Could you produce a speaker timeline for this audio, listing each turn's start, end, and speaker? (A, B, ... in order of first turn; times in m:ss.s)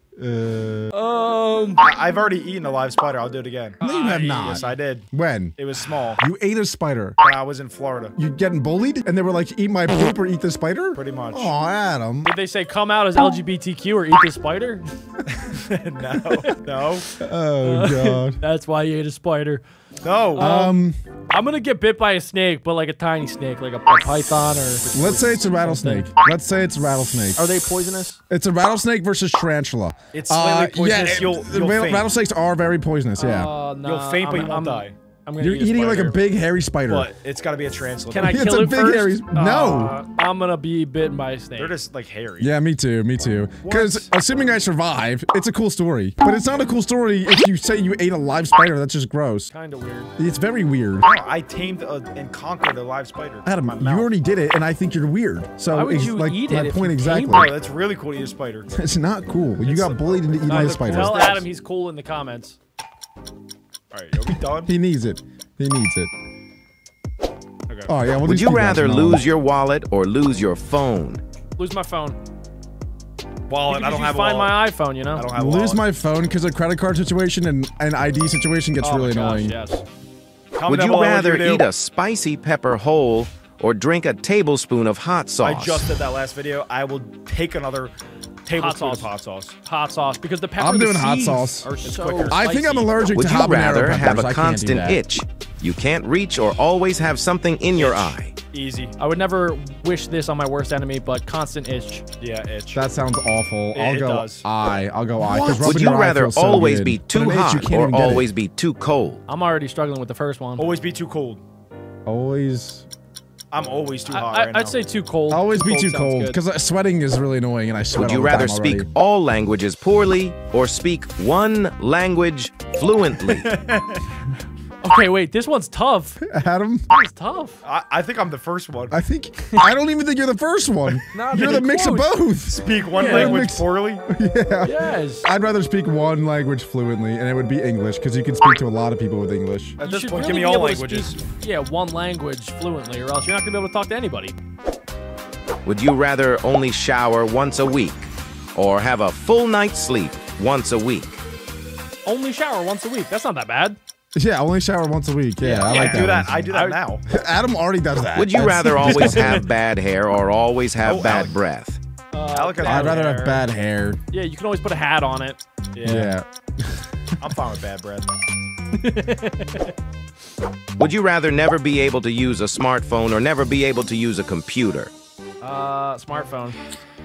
0:00.2-0:00.9 A
0:00.9-0:01.8 B
0:01.8-0:05.0 C
0:03.8-0:04.6 B
0:03.8-0:05.6 A
0:05.6-0:06.2 C
0:06.2-0:07.2 A
0:07.2-0:08.2 C
0:08.2-0:12.3 A
0:11.0-0:11.5 C
0:12.2-0:14.8 B
0:15.3-0:17.1 C
0:16.3-0:16.6 B
0:17.2-0:18.4 A
0:17.6-0:19.6 B
0:20.0-0:20.6 C
0:20.4-0:20.8 B
0:20.4-0:21.0 A
0:21.3-0:26.1 B
0:24.9-0:27.5 A
0:27.4-0:28.2 B
0:28.3-0:33.5 A
0:30.1-0:32.1 C
0:33.2-0:36.2 B
0:33.8-0:35.0 C
0:35.4-0:37.1 A
0:36.9-0:38.5 C
0:38.1-0:41.8 B
0:38.2-0:40.0 A
0:41.6-0:42.5 C
0:42.4-0:49.5 A
0:43.6-0:44.1 C
0:49.5-0:50.1 B
0:50.2-0:51.1 A
0:51.0-0:54.1 C
0:53.4-0:57.5 A
0:55.7-0:57.5 B
0:57.2-0:58.8 C
0:58.7-1:01.2 A
0:59.6-1:01.4 C
1:00.5-1:02.6 B
1:03.9-1:04.7 C
1:04.6-1:06.1 A
1:07.9-1:09.2 A
1:08.2-1:11.2 D
1:11.6-1:12.2 B
1:13.5-1:14.6 C
1:13.7-1:15.3 B
1:15.1-1:15.8 C
1:15.3-1:19.6 A
1:18.8-1:19.8 B
1:20.5-1:21.7 C
1:20.7-1:25.9 D
1:25.4-1:27.9 C
1:28.4-1:29.6 C
1:28.5-1:29.1 B
1:29.6-1:32.9 B
1:30.6-1:31.7 A
1:31.8-1:32.9 C
1:32.3-1:35.0 A
1:33.1-1:38.3 D
1:37.8-1:39.0 C
1:39.0-1:42.0 B
1:42.2-1:42.8 C
1:42.7-1:48.3 A
1:43.7-1:44.4 C
1:45.2-1:49.2 D
1:49.3-1:50.6 B
1:50.6-1:51.4 C
1:52.1-1:52.9 A
1:53.5-1:54.8 C
1:54.1-1:56.4 B
1:55.3-1:58.9 A
1:58.0-2:03.5 D
2:03.2-2:04.0 C
2:04.8-2:06.2 B
2:06.2-2:06.9 A
2:06.9-2:07.6 B
2:07.6-2:09.0 C
2:08.9-2:19.8 A
2:11.1-2:12.2 B
2:12.5-2:14.0 C
2:13.0-2:13.4 B
2:14.6-2:15.3 B
2:19.8-2:21.2 C
2:19.8-2:24.4 B
2:25.6-2:31.2 D
2:32.0-2:33.8 B
2:34.2-2:36.5 A
2:35.4-2:37.0 C
2:35.4-2:36.8 B
2:37.1-2:39.5 A
2:38.2-2:41.8 D
2:38.8-2:39.4 C
2:40.8-2:41.3 C
2:42.1-2:43.4 B
2:42.3-2:43.1 C
2:42.6-2:44.0 A
2:44.1-2:45.4 B
2:45.7-2:46.1 C
2:45.8-2:47.2 A
2:47.2-2:48.1 C
2:48.7-2:49.7 B
2:50.8-2:54.9 D
2:55.4-2:56.6 B